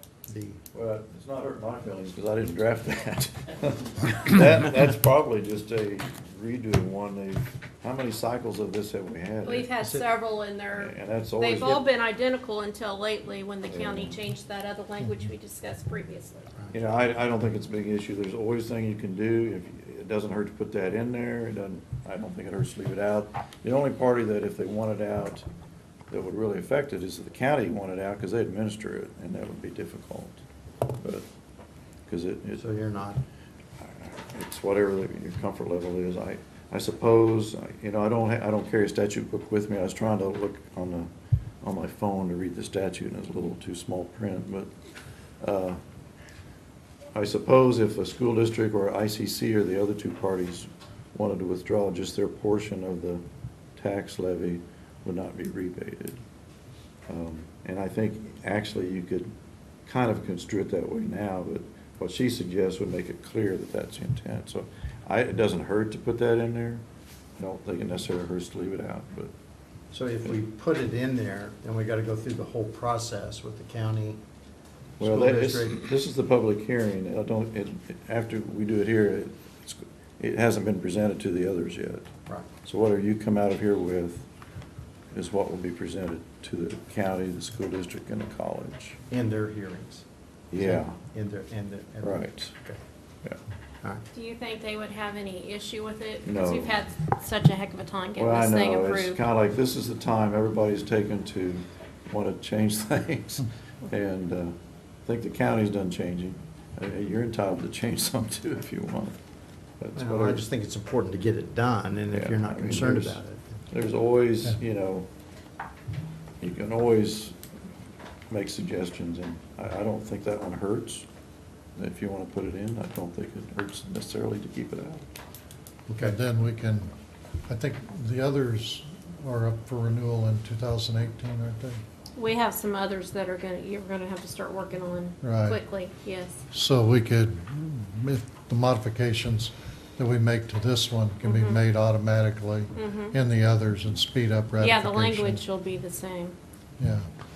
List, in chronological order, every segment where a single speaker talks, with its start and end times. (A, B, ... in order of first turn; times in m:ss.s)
0:00.3-0:00.6 A
0:00.7-0:10.0 B
0:09.4-0:16.5 C
0:10.7-0:11.9 B
0:13.6-0:14.2 B
0:16.7-0:25.4 B
0:26.1-0:30.4 B
0:31.0-0:31.3 B
0:32.1-0:32.6 B
0:32.6-0:33.2 A
0:33.8-0:41.1 B
0:41.6-0:44.7 B
0:45.4-0:45.8 B
0:47.1-0:53.2 B
0:53.8-0:56.2 B
0:57.1-0:59.3 B
0:59.8-1:06.8 B
1:07.4-1:09.3 B
1:09.9-1:14.2 A
1:15.0-1:15.8 A
1:15.0-1:22.1 B
1:22.6-1:24.2 B
1:25.1-1:29.0 B
1:29.1-1:30.0 A
1:30.5-1:31.0 B
1:30.6-1:32.8 A
1:32.0-1:32.5 B
1:34.1-1:39.2 C
1:36.2-1:36.8 B
1:38.2-1:49.2 B
1:49.8-1:50.4 B
1:49.9-1:53.6 A
1:52.1-1:53.2 B
1:53.7-1:55.1 B
1:56.4-1:57.4 B
1:58.3-2:01.0 B
2:01.8-2:05.1 B
2:05.9-2:06.2 A
2:06.0-2:06.9 D
2:07.5-2:11.8 D
2:12.2-2:16.4 C
2:15.2-2:15.6 D
2:16.5-2:25.4 D
2:21.2-2:21.6 C
2:22.7-2:23.2 C
2:24.6-2:26.4 C
2:26.8-2:27.1 D